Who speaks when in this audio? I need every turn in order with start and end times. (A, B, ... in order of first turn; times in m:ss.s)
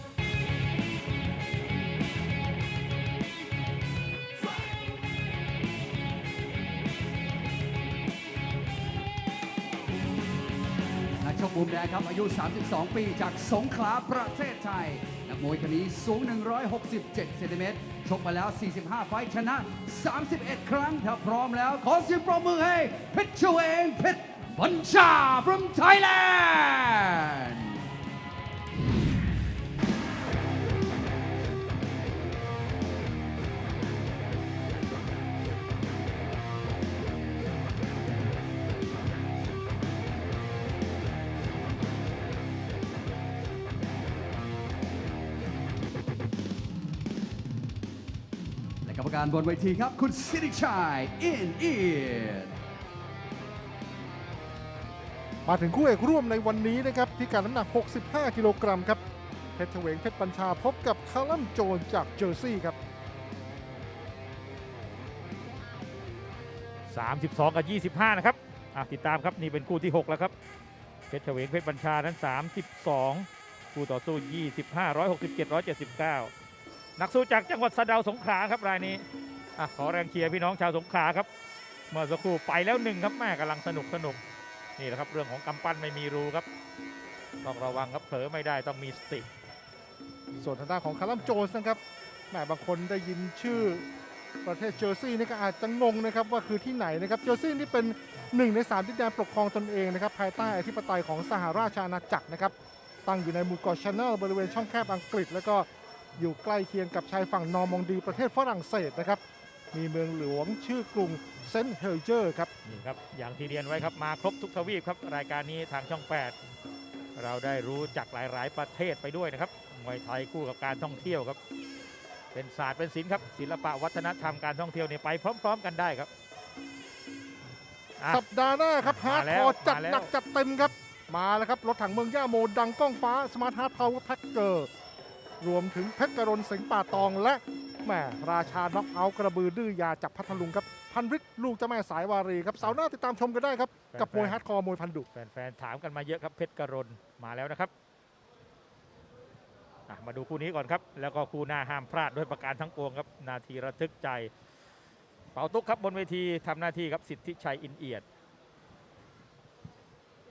0:11.2-0:27.8 A
0:48.8-0:52.5 A
0:55.5-0:59.0 B
0:59.6-1:02.8 B
1:06.9-1:10.3 C
1:11.1-1:16.3 C
1:17.0-1:19.0 C
1:19.6-1:21.3 C
1:21.9-1:24.2 C
1:24.8-1:26.5 C
1:27.4-1:29.3 C
1:30.4-1:31.8 B
1:32.3-1:33.8 B
1:34.4-1:42.5 B
1:43.0-1:49.2 B
1:49.7-1:52.5 B
1:52.6-1:56.4 C
1:57.2-2:01.4 C
2:02.3-2:06.1 C
2:08.0-2:08.2 C
2:08.1-2:14.7 B
2:08.8-2:10.1 C
2:15.4-2:25.1 B
2:23.9-2:24.4 C
2:25.1-2:27.7 C
2:29.9-2:34.3 C
2:35.3-2:38.0 C